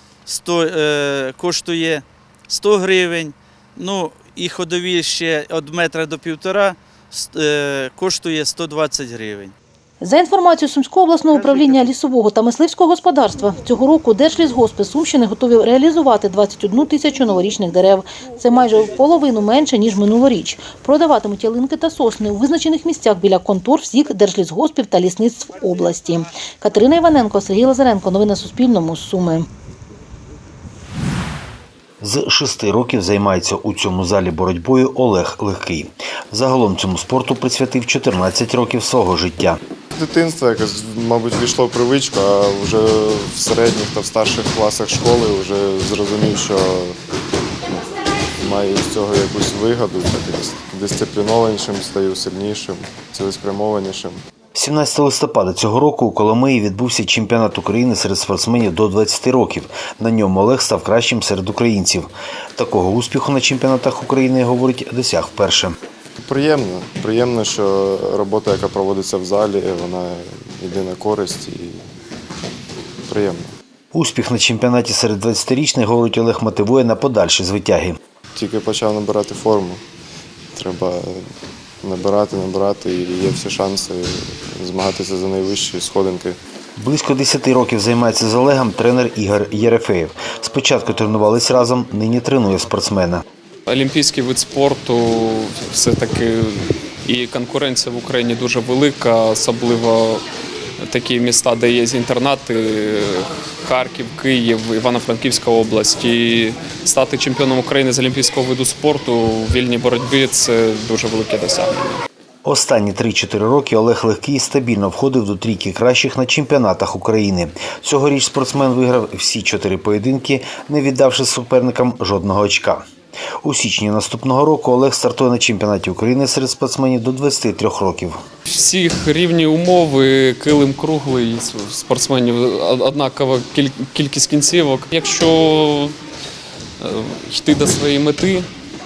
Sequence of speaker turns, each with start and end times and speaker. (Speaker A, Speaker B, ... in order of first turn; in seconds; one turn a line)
Speaker A: 0.3-9.6
Speaker B: 10.0-29.5
Speaker C: 32.0-39.6
Speaker D: 40.0-47.0
Speaker D: 48.4-54.2
Speaker C: 54.5-65.8
Speaker D: 66.2-71.8
Speaker D: 73.1-73.5
Speaker C: 73.9-78.0
Speaker D: 78.4-79.8
Speaker D: 80.6-81.2
Speaker D: 81.8-86.4
Speaker C: 86.8-93.2
Speaker E: 93.7-100.2
Speaker E: 100.8-112.0
Speaker C: 112.4-122.9
Speaker C: 123.4-128.2
Speaker E: 128.5-135.9
Speaker E: 136.8-138.5